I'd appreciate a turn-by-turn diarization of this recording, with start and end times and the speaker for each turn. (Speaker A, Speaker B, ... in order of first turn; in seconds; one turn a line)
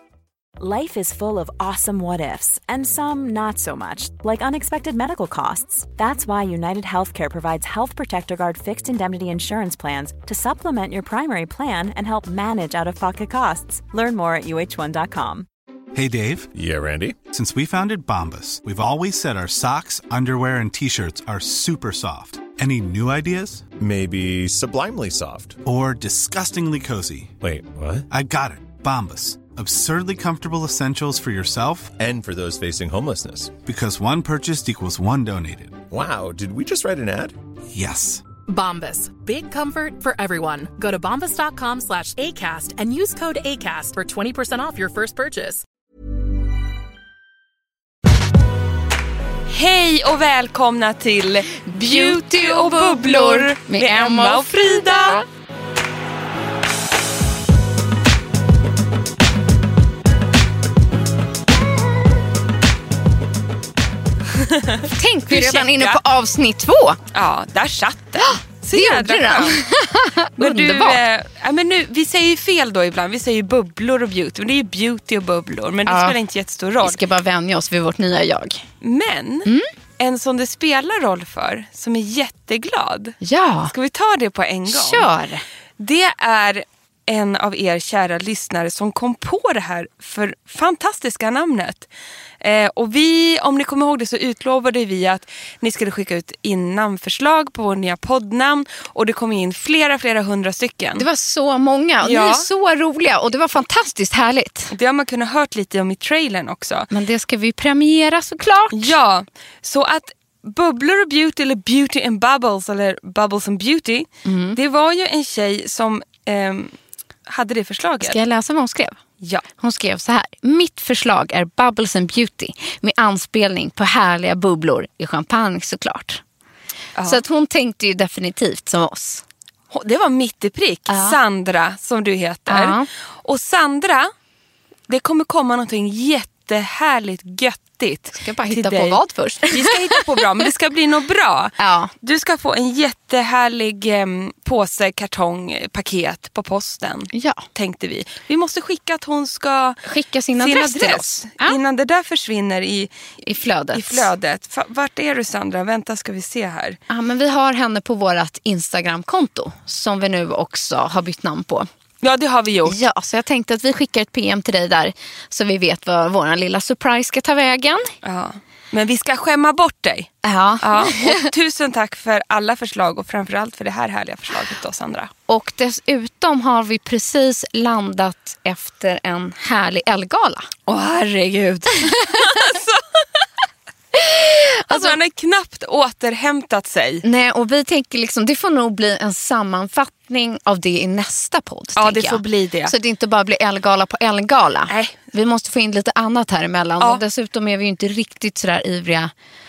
Speaker A: 0.6-15.5
Speaker B: 15.9-16.5
Speaker C: 16.5-17.2
Speaker B: 17.3-23.7
Speaker C: 23.8-25.6
Speaker B: 25.6-27.3
Speaker C: 27.4-28.1
Speaker B: 28.1-31.9
Speaker C: 32.0-33.5
Speaker B: 33.6-35.9
Speaker C: 35.9-37.4
Speaker B: 37.7-38.2
Speaker D: 38.5-45.6
Speaker E: 49.5-55.2
Speaker F: 51.7-55.2
Speaker E: 64.3-66.0
Speaker F: 64.9-67.0
Speaker E: 67.1-69.6
Speaker F: 68.2-71.0
Speaker E: 70.4-77.0
Speaker F: 75.9-76.2
Speaker F: 76.8-78.6
Speaker E: 78.8-83.2
Speaker F: 83.2-83.7
Speaker E: 83.7-85.1
Speaker F: 84.7-85.4
Speaker E: 85.8-91.9
Speaker E: 92.4-101.0
Speaker F: 101.0-104.7
Speaker E: 102.0-102.5
Speaker E: 104.7-106.9
Speaker F: 106.9-108.9
Speaker E: 108.7-116.7
Speaker F: 114.2-114.6
Speaker E: 117.3-118.2
Speaker F: 118.0-119.0
Speaker E: 119.2-119.4
Speaker F: 119.6-126.2
Speaker E: 127.0-127.2
Speaker F: 127.0-129.2
Speaker E: 129.7-134.1
Speaker F: 130.9-131.2
Speaker F: 132.5-132.8
Speaker E: 134.9-149.8
Speaker F: 138.2-140.2
Speaker F: 141.6-141.9
Speaker F: 147.1-147.4
Speaker F: 149.9-151.6
Speaker E: 150.4-152.9
Speaker F: 153.2-154.1
Speaker E: 153.7-156.8
Speaker F: 156.9-161.7
Speaker E: 162.0-162.8
Speaker F: 162.7-167.9
Speaker E: 168.0-175.1
Speaker F: 170.2-171.2
Speaker F: 175.3-180.5
Speaker E: 180.7-183.2
Speaker F: 183.9-184.9
Speaker E: 184.7-187.0
Speaker F: 187.0-199.1
Speaker E: 191.8-192.7
Speaker E: 194.7-195.0